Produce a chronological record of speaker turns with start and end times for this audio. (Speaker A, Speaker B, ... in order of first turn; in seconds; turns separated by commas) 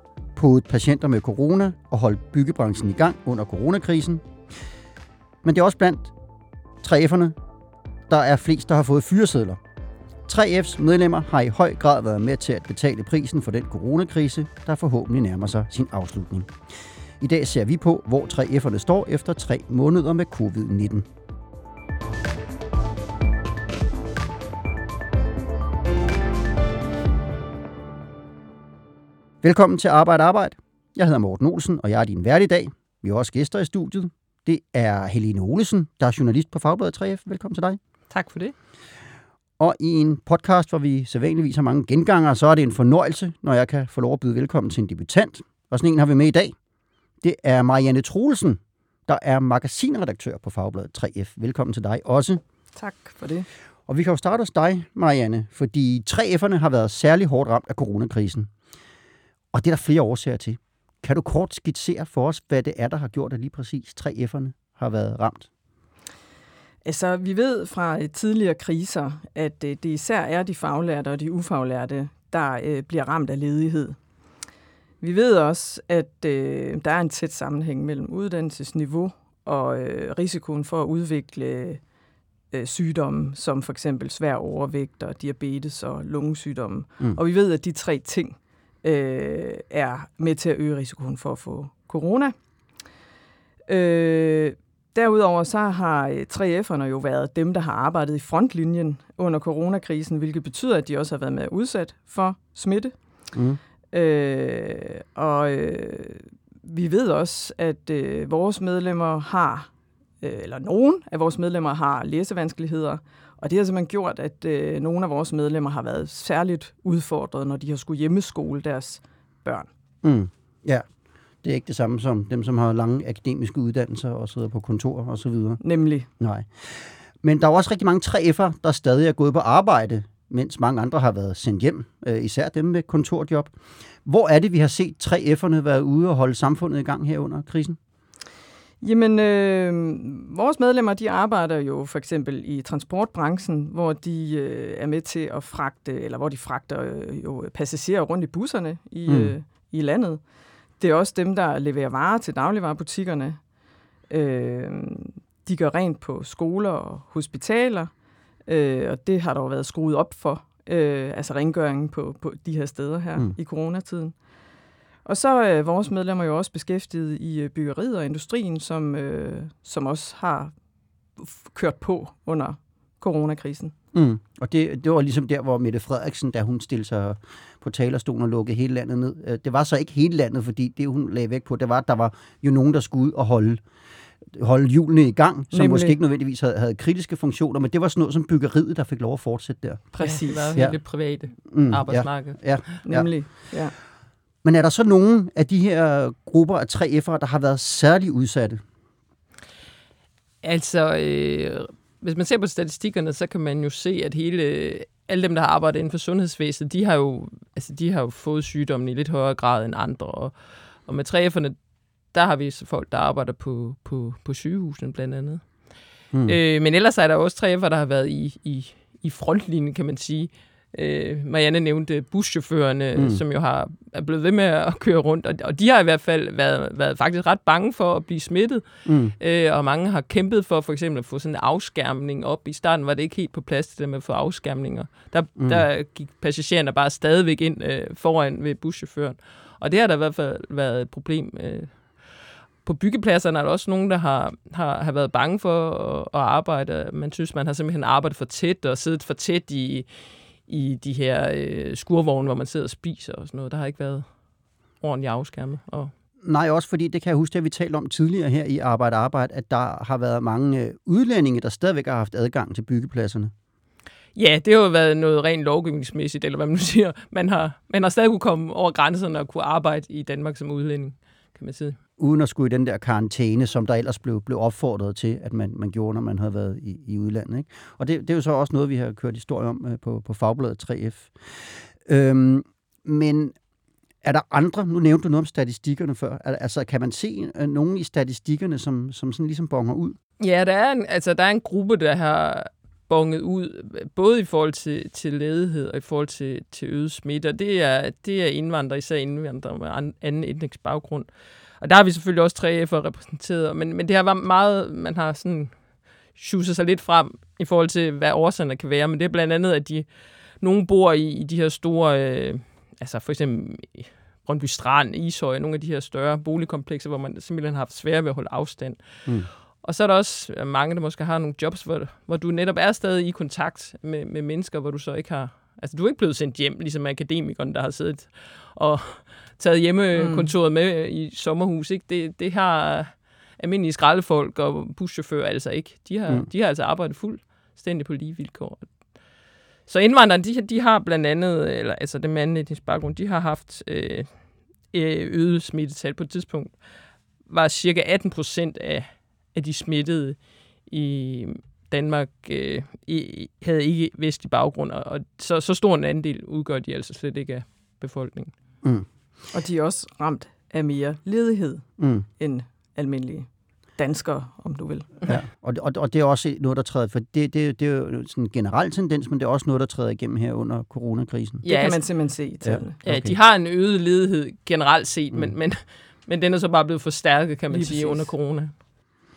Speaker A: 0.3-4.2, Speaker A: 5.4-6.1, Speaker A: 6.8-7.3, Speaker A: 8.1-9.6, Speaker A: 10.3-16.5, Speaker A: 17.2-21.1, Speaker A: 29.4-37.8, Speaker B: 38.1-38.5, Speaker A: 39.6-46.5, Speaker A: 47.2-52.4, Speaker C: 52.7-53.5, Speaker A: 53.9-58.5, Speaker A: 59.5-65.5, Speaker C: 66.8-74.0, Speaker C: 75.0-81.8, Speaker C: 82.5-92.3, Speaker C: 93.7-102.9, Speaker A: 103.3-103.6, Speaker C: 103.9-119.7, Speaker A: 120.0-120.8, Speaker A: 121.4-125.6, Speaker C: 125.6-126.1, Speaker A: 126.2-133.5, Speaker A: 134.0-137.8, Speaker C: 138.8-150.2, Speaker A: 149.1-149.3, Speaker C: 150.8-153.4, Speaker C: 154.1-157.9, Speaker C: 158.4-164.1, Speaker C: 165.0-170.5, Speaker C: 171.2-173.7, Speaker A: 173.9-183.6, Speaker A: 184.3-189.8, Speaker C: 185.5-186.0, Speaker C: 189.9-190.6, Speaker B: 190.0-192.8, Speaker A: 191.5-193.1, Speaker C: 192.8-193.7, Speaker A: 194.4-198.6, Speaker B: 200.4-211.6, Speaker B: 212.1-215.4, Speaker B: 216.3-228.6, Speaker A: 223.0-223.2, Speaker A: 228.8-229.2, Speaker B: 229.2-241.8, Speaker A: 235.4-235.6, Speaker B: 242.6-254.0, Speaker B: 254.8-255.9, Speaker A: 256.2-263.3, Speaker B: 264.1-271.8, Speaker A: 272.0-281.1, Speaker A: 281.9-283.3, Speaker A: 284.0-290.0, Speaker B: 290.2-301.1, Speaker B: 301.6-305.5, Speaker B: 306.1-309.9, Speaker B: 310.4-318.8, Speaker B: 319.6-338.7, Speaker C: 329.9-330.3, Speaker B: 339.7-344.1, Speaker B: 344.7-346.6, Speaker B: 347.3-358.3, Speaker C: 359.3-365.1, Speaker A: 361.8-362.1, Speaker A: 365.1-371.4, Speaker B: 371.4-371.8, Speaker C: 371.5-372.8, Speaker A: 372.4-373.1, Speaker B: 372.8-378.5, Speaker C: 377.5-378.1